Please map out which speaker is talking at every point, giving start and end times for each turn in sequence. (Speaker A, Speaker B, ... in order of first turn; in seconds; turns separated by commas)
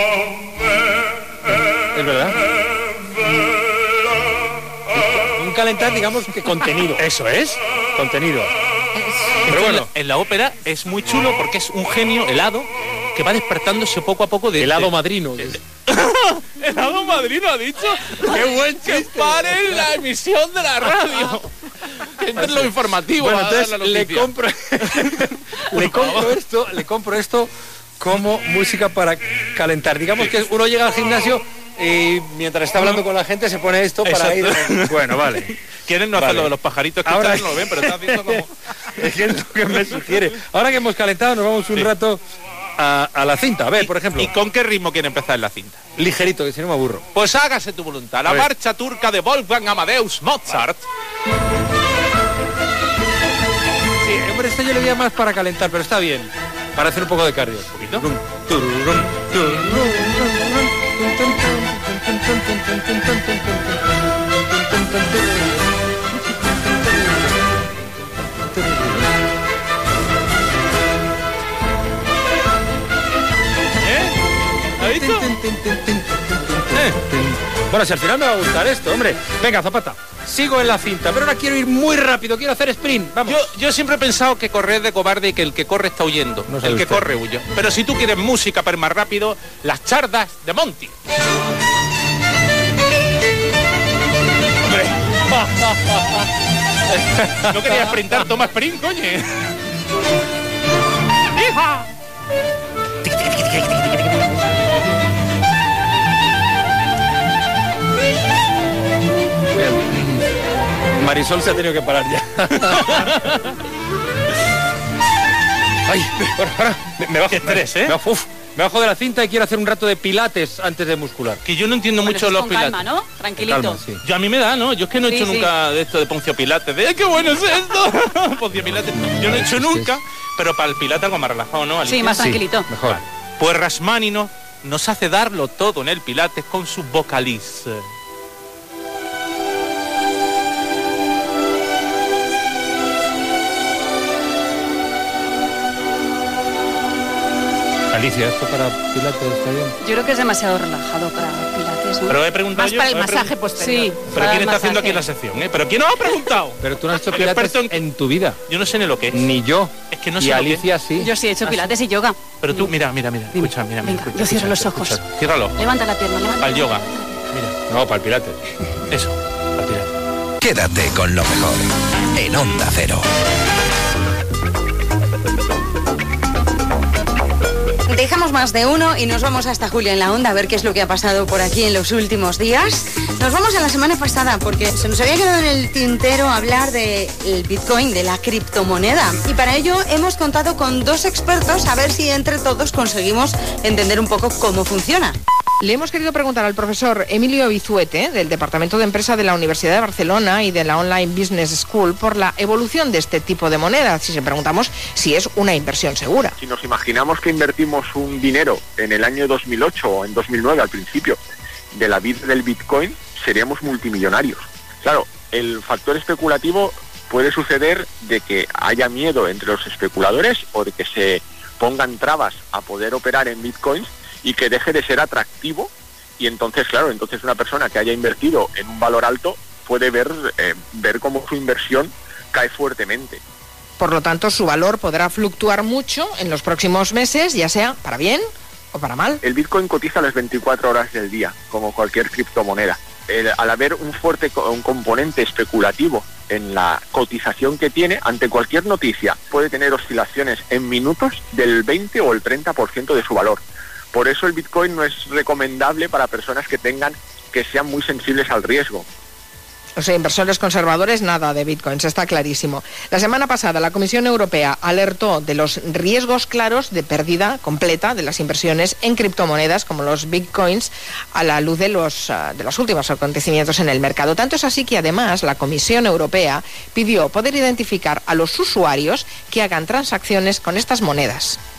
Speaker A: 1.9-2.3, Speaker A: 5.4-7.0, Speaker B: 7.0-7.6, Speaker A: 8.0-8.5, Speaker B: 9.4-21.5, Speaker A: 9.5-9.9, Speaker A: 14.6-15.5, Speaker A: 18.8-19.4, Speaker B: 22.2-24.3, Speaker A: 22.4-25.2, Speaker A: 25.7-35.5, Speaker B: 25.7-26.3, Speaker B: 34.1-38.5, Speaker A: 36.1-36.5, Speaker A: 37.0-38.4, Speaker A: 39.0-42.2, Speaker A: 42.8-44.3, Speaker B: 43.7-45.8, Speaker A: 46.0-47.0, Speaker B: 47.1-50.8, Speaker A: 54.0-60.5, Speaker B: 57.8-58.0, Speaker A: 61.0-63.4, Speaker B: 74.8-75.2, Speaker A: 74.8-76.0, Speaker A: 76.7-79.3, Speaker B: 79.3-79.7, Speaker B: 80.3-90.9, Speaker A: 83.1-83.4, Speaker A: 86.5-87.1, Speaker B: 97.5-99.4, Speaker B: 101.4-101.7, Speaker A: 109.6-109.8, Speaker A: 111.0-113.0, Speaker A: 115.9-121.4, Speaker B: 117.3-118.0, Speaker B: 121.4-122.8, Speaker C: 122.0-123.8, Speaker A: 123.4-124.0, Speaker B: 124.0-132.2, Speaker C: 125.1-125.5, Speaker A: 128.6-130.0, Speaker C: 131.8-132.7, Speaker A: 132.2-133.0, Speaker B: 132.8-137.9, Speaker A: 147.9-149.7, Speaker C: 149.8-155.0, Speaker B: 152.1-157.8, Speaker A: 156.6-158.4, Speaker B: 158.4-159.2, Speaker A: 159.1-161.1, Speaker B: 159.9-160.7, Speaker C: 161.0-162.7, Speaker B: 162.4-165.6, Speaker C: 163.4-165.0, Speaker C: 165.6-167.1, Speaker B: 166.4-166.8, Speaker A: 167.7-168.3, Speaker D: 170.4-173.1, Speaker E: 177.9-195.2, Speaker F: 195.6-206.3, Speaker G: 206.4-211.2, Speaker G: 211.7-233.2, Speaker F: 233.8-239.2, Speaker G: 239.2-253.4, Speaker G: 253.9-258.9, Speaker F: 259.8-281.4